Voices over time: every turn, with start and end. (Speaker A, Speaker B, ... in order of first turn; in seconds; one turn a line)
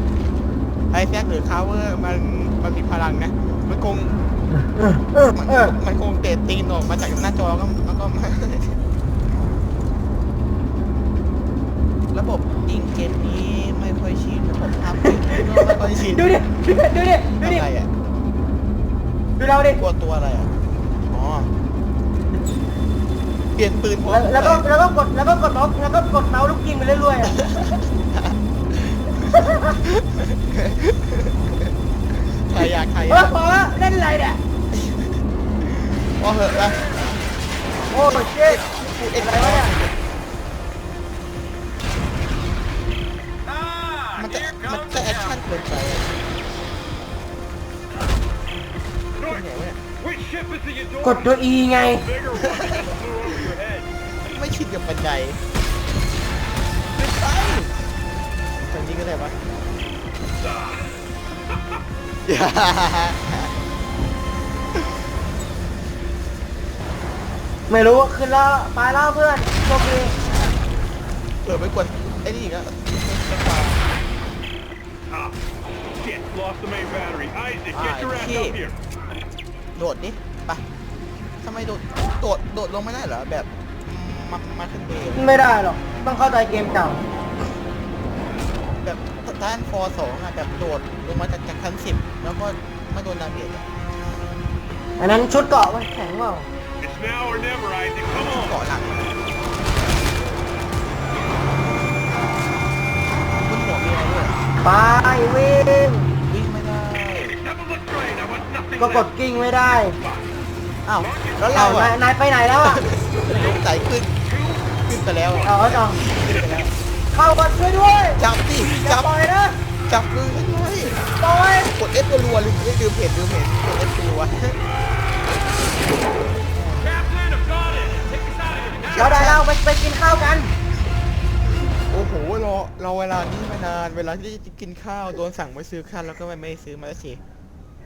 Speaker A: 0.9-4.2
Speaker B: 4.7-5.7
Speaker A: 5.3-8.8
Speaker A: 12.1-16.4
Speaker B: 15.2-17.6
Speaker A: 17.4-17.9
Speaker B: 19.4-19.8
Speaker A: 19.8-20.5
Speaker A: 21.1-21.5
Speaker A: 23.5-24.6
Speaker B: 24.1-27.4
Speaker A: 27.3-33.4
Speaker B: 29.3-29.7
Speaker B: 32.6-34.4
Speaker A: 34.7-36.9
Speaker A: 37.8-40.0
Speaker B: 37.9-39.7
Speaker C: 43.5-45.4
Speaker A: 44.1-46.1
Speaker C: 49.2-53.9
Speaker A: 49.2-49.8
Speaker B: 51.0-52.1
Speaker A: 52.4-52.8
Speaker A: 54.2-55.4
Speaker A: 56.9-57.8
Speaker A: 58.6-59.4
Speaker C: 60.4-61.0
Speaker A: 62.2-63.5
Speaker B: 67.7-70.2
Speaker A: 70.2-70.5
Speaker A: 71.4-73.8
Speaker C: 75.1-78.8
Speaker A: 77.7-78.6
Speaker A: 79.8-80.6
Speaker A: 81.4-85.4
Speaker B: 85.2-87.0
Speaker A: 88.8-93.7
Speaker B: 95.0-96.5
Speaker C: 96.8-98.6
Speaker A: 98.2-99.2
Speaker A: 103.4-104.4
Speaker B: 104.6-106.1
Speaker A: 106.3-107.4
Speaker C: 107.4-109.1
Speaker B: 108.8-110.0
Speaker A: 110.9-111.9
Speaker C: 111.0-111.4
Speaker B: 111.5-112.8
Speaker A: 112.6-114.1
Speaker C: 113.3-113.6
Speaker C: 114.3-114.6
Speaker A: 114.8-116.7
Speaker B: 115.4-116.0
Speaker B: 117.1-119.6
Speaker A: 118.2-119.1
Speaker A: 119.9-121.1
Speaker B: 121.2-121.7
Speaker A: 121.7-124.6
Speaker B: 126.6-126.8
Speaker C: 126.8-129.3
Speaker A: 128.9-129.4
Speaker B: 128.9-130.5
Speaker A: 131.9-137.2